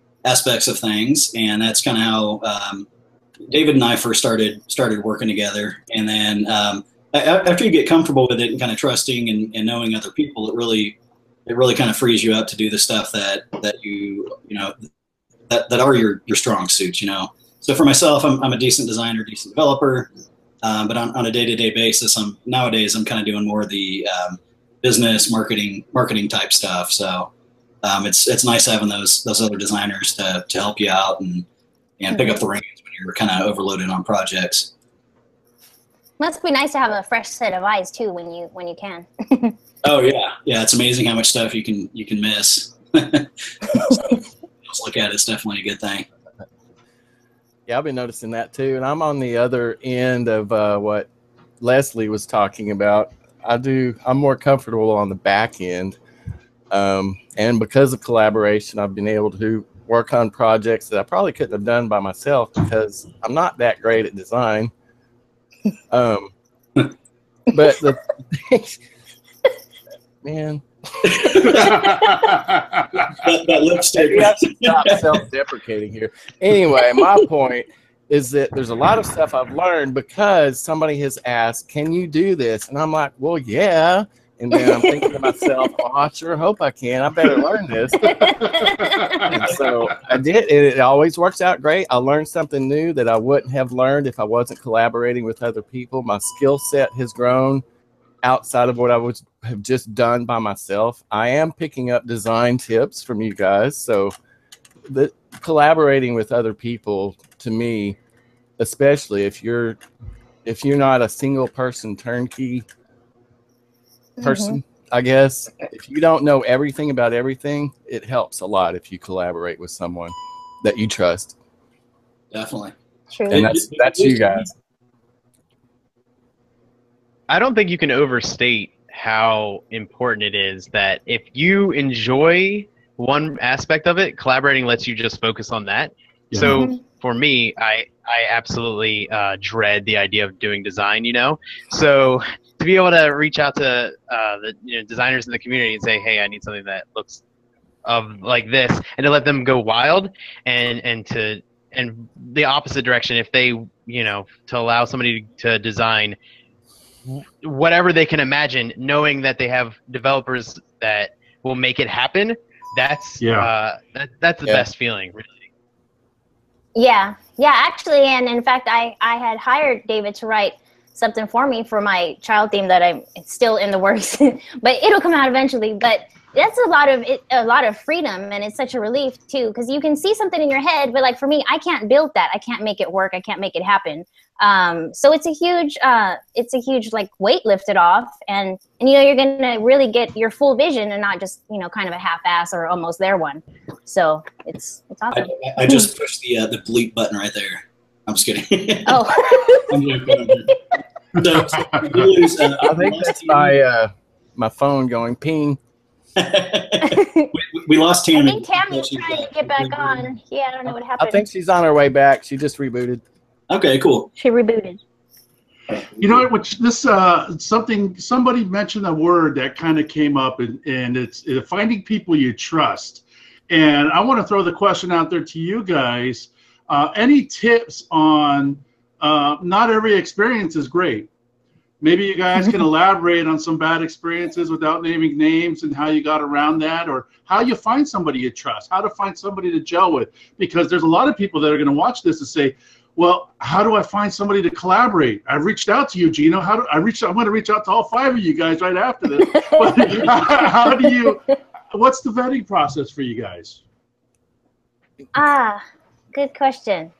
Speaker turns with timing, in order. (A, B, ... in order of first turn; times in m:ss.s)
0:00.2-0:02.9 A
0:03.5-0:14.9 A
0:15.5-0:20.1 A
0:20.6-0:27.3 A
0:27.8-0:31.4 A
0:32.0-0:34.7 A
0:36.2-0:39.6 B
0:39.8-0:46.1 A
0:47.7-0:51.1 C
0:51.6-0:56.0 C
0:56.7-1:04.7 C
1:05.9-1:06.3 C
1:07.5-1:08.8 C
1:10.2-1:11.7 C
1:11.0-1:12.0 A
1:11.9-1:12.8 D
1:13.1-1:15.1 A
1:13.9-1:28.3 C
1:24.5-1:25.4 B
1:28.0-1:29.3 B
1:28.8-1:29.3 D
1:29.3-1:37.6 C
1:38.2-1:44.1 C
1:44.8-1:48.0 C
1:48.6-1:49.8 C
1:50.4-1:52.6 C
1:54.2-1:54.6 B
1:54.2-2:01.4 C
2:02.3-2:02.7 A
2:03.1-2:03.5 B
2:03.3-2:04.5 C
2:03.3-2:04.5 A
2:07.3-2:27.2 E
2:16.3-2:16.7 D
2:16.4-2:16.8 B
2:27.8-2:36.2 E
2:37.0-2:45.5 E
2:43.2-2:43.5 D
2:46.8-3:15.9 B
3:15.1-3:20.5 A
3:18.8-3:20.6 B
3:21.1-3:23.5 A
3:21.6-3:22.0 D
3:22.6-3:25.6 C
3:26.2-3:30.0 A
3:26.8-3:27.3 B
3:28.2-3:31.2 B
3:30.7-3:33.0 C
3:33.5-3:34.1 A
3:34.2-3:34.8 B
3:36.0-3:51.1 D
3:51.8-4:13.6 D
4:09.2-4:10.8 B
4:15.1-4:15.6 B
4:16.1-4:16.9 B